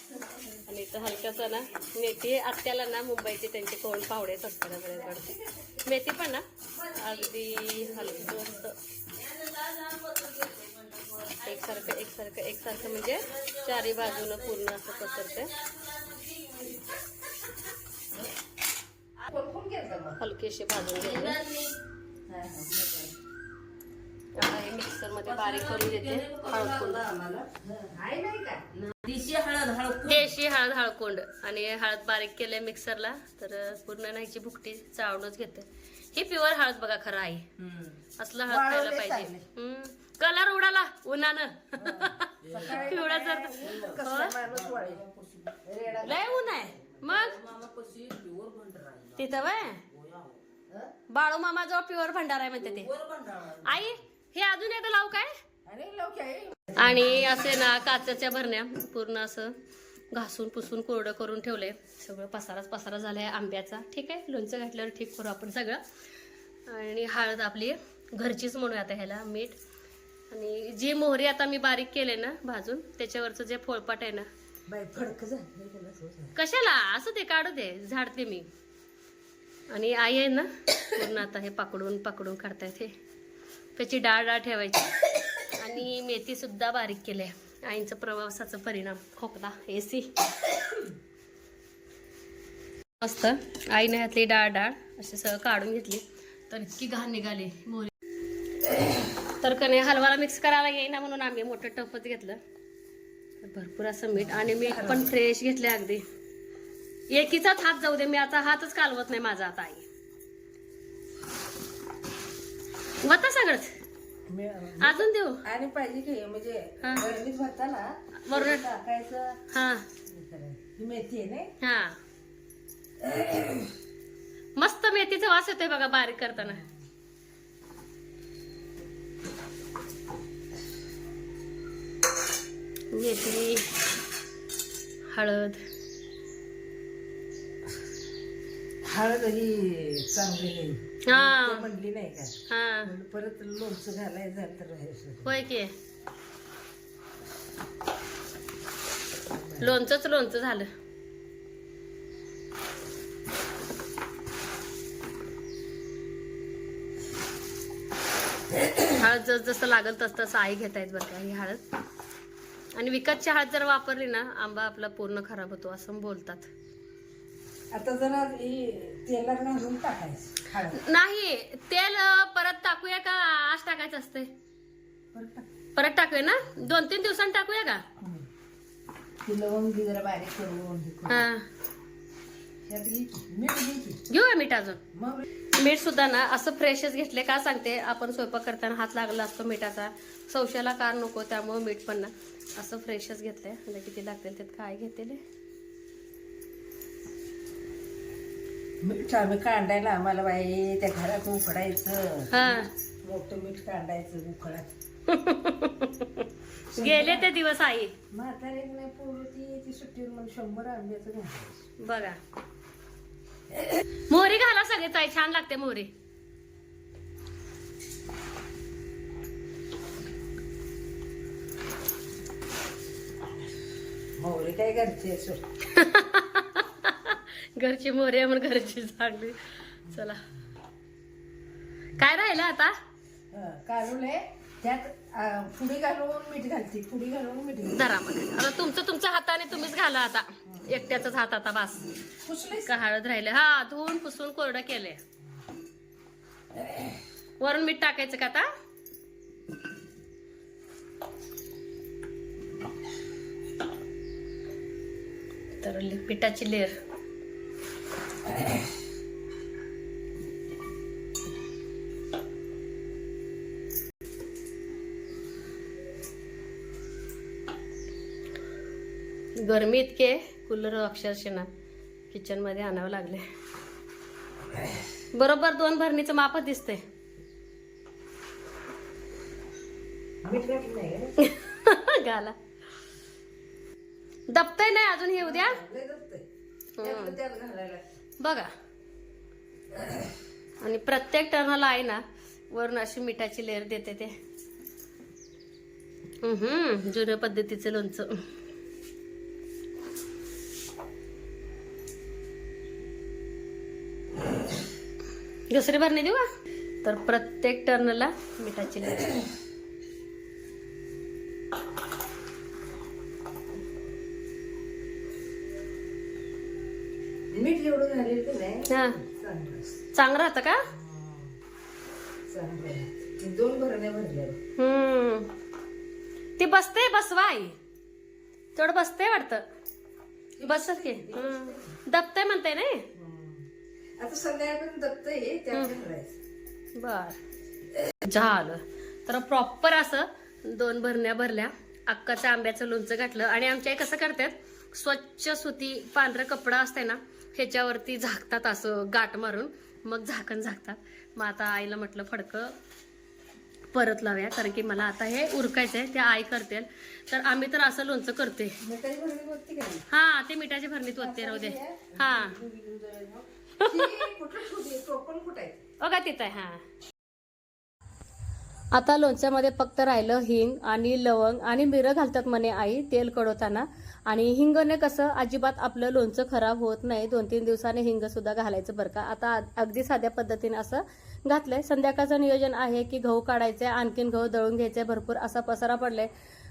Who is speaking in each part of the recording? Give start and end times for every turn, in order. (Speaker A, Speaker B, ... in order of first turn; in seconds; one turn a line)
Speaker A: 0.7-5.3
Speaker B: 4.9-5.8
Speaker A: 5.8-8.8
Speaker C: 6.7-8.4
Speaker C: 9.1-12.0
Speaker A: 11.4-15.5
Speaker C: 12.7-17.0
Speaker B: 19.3-20.2
Speaker A: 20.2-21.4
Speaker C: 21.0-21.8
Speaker B: 22.3-23.1
Speaker A: 24.4-27.1
Speaker C: 25.2-27.5
Speaker B: 27.6-28.6
Speaker C: 28.8-30.3
Speaker A: 30.1-37.5
Speaker C: 37.6-38.0
Speaker A: 38.2-44.4
Speaker B: 38.5-39.5
Speaker B: 41.8-45.0
Speaker C: 42.5-50.4
Speaker B: 45.6-46.4
Speaker A: 46.0-47.4
Speaker A: 49.2-49.8
Speaker A: 51.1-52.9
Speaker C: 52.6-54.0
Speaker A: 53.6-55.3
Speaker B: 55.7-57.4
Speaker A: 56.8-59.6
Speaker A: 60.1-65.8
Speaker A: 66.7-69.6
Speaker A: 70.3-74.3
Speaker B: 74.7-76.3
Speaker A: 76.4-78.5
Speaker A: 79.7-82.9
Speaker A: 83.8-85.0
Speaker A: 85.6-90.1
Speaker A: 93.0-97.9
Speaker A: 99.4-102.4
Speaker A: 103.4-106.0
Speaker B: 104.2-105.2
Speaker A: 107.1-109.9
Speaker A: 113.0-113.8
Speaker B: 114.3-119.4
Speaker A: 114.8-115.4
Speaker A: 116.8-117.1
Speaker A: 118.2-118.7
Speaker A: 119.5-119.8
Speaker B: 120.1-121.5
Speaker A: 121.6-122.0
Speaker B: 123.0-123.7
Speaker A: 124.6-126.7
Speaker B: 126.5-126.8
Speaker A: 132.9-133.7
Speaker A: 135.1-135.6
Speaker B: 138.8-145.4
Speaker A: 141.1-141.7
Speaker A: 142.5-142.9
Speaker A: 145.2-145.7
Speaker B: 149.3-149.7
Speaker A: 149.6-150.7
Speaker A: 158.9-161.6
Speaker A: 162.8-166.5
Speaker B: 167.7-170.8
Speaker A: 170.7-174.3
Speaker B: 175.1-175.5
Speaker A: 175.8-177.8
Speaker B: 178.0-178.3
Speaker B: 179.2-181.3
Speaker A: 181.1-181.5
Speaker B: 182.7-184.0
Speaker A: 184.1-184.8
Speaker B: 184.9-185.2
Speaker A: 185.6-195.2
Speaker B: 198.8-204.7
Speaker A: 202.3-202.7
Speaker A: 205.1-207.9
Speaker B: 206.7-207.3
Speaker B: 208.1-211.6
Speaker A: 211.8-212.2
Speaker A: 214.1-215.9
Speaker B: 224.2-225.5
Speaker A: 225.7-230.2
Speaker A: 232.0-232.8
Speaker B: 233.3-237.8
Speaker A: 237.7-241.8
Speaker B: 242.2-242.8
Speaker A: 242.7-245.0
Speaker B: 246.6-246.9
Speaker A: 247.4-248.5
Speaker A: 255.6-256.8
Speaker A: 269.4-271.5
Speaker A: 272.1-273.3
Speaker A: 275.1-276.8
Speaker B: 280.2-281.1
Speaker A: 281.2-282.4
Speaker A: 284.3-285.6
Speaker B: 285.2-286.2
Speaker A: 286.8-287.2
Speaker B: 286.8-287.9
Speaker A: 288.2-288.5
Speaker B: 289.7-290.1
Speaker A: 290.6-294.2
Speaker A: 296.2-298.2
Speaker A: 305.5-306.3
Speaker A: 306.8-309.1
Speaker B: 317.3-319.8
Speaker A: 318.7-319.0
Speaker A: 319.9-320.7
Speaker B: 320.7-321.4
Speaker B: 322.3-324.4
Speaker A: 324.6-325.3
Speaker A: 326.4-327.6
Speaker A: 328.6-329.4
Speaker B: 330.4-331.8
Speaker A: 330.4-332.9
Speaker B: 332.9-333.5
Speaker B: 334.0-336.2
Speaker A: 336.8-337.2
Speaker A: 338.1-352.6
Speaker A: 353.7-358.6
Speaker B: 358.6-359.9
Speaker A: 359.9-362.4
Speaker B: 360.9-365.6
Speaker A: 363.6-364.1
Speaker A: 365.8-366.6
Speaker A: 368.7-386.1